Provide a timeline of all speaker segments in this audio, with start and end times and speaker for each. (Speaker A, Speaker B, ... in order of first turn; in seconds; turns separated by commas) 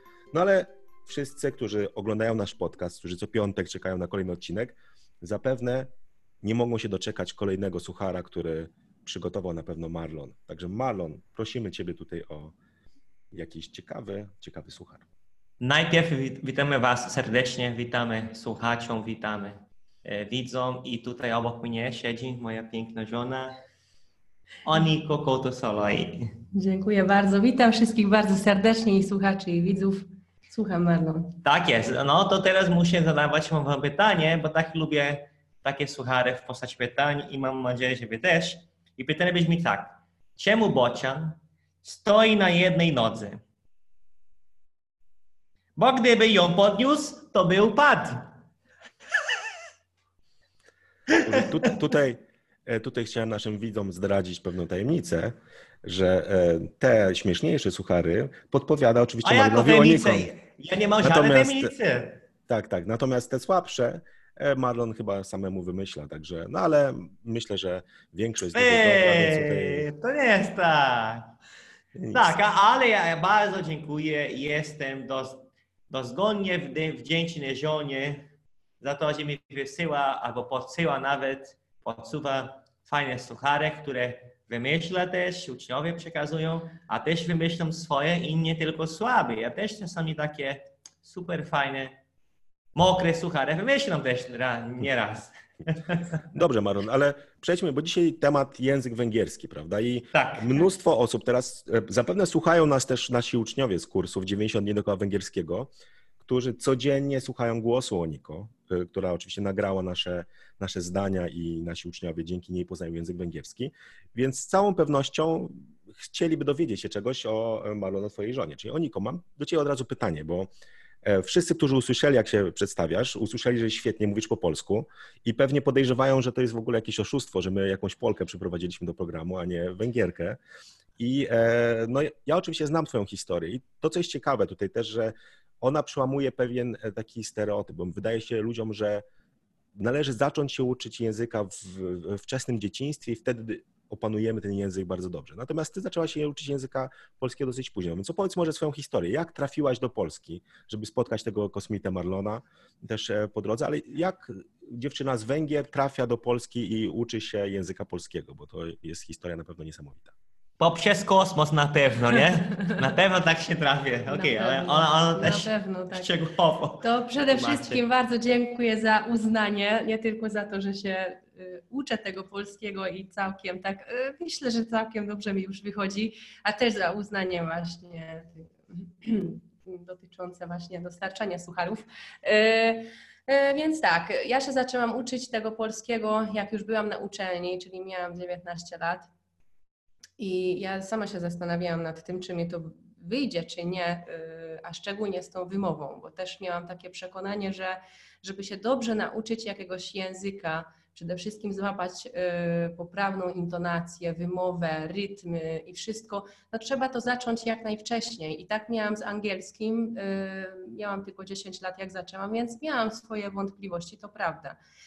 Speaker A: 0.3-5.9, Speaker A: 6.4-12.5, Speaker A: 13.3-15.0, Speaker B: 15.6-23.5, Speaker B: 24.6-26.3, Speaker C: 26.5-31.4, Speaker B: 31.4-43.4, Speaker B: 45.8-48.3, Speaker B: 51.1-51.4, Speaker A: 51.1-60.3, Speaker B: 59.2-62.2, Speaker A: 61.0-61.7, Speaker A: 62.5-69.9, Speaker B: 68.5-71.3, Speaker A: 72.0-72.3, Speaker B: 72.1-78.3, Speaker B: 78.8-92.0, Speaker B: 92.7-96.2, Speaker A: 96.3-120.5, Speaker B: 100.1-100.6, Speaker A: 121.0-130.4, Speaker A: 131.0-139.0, Speaker A: 139.8-160.1, Speaker B: 160.6-167.8, Speaker C: 164.1-166.2, Speaker C: 166.8-189.1, Speaker C: 190.2-214.6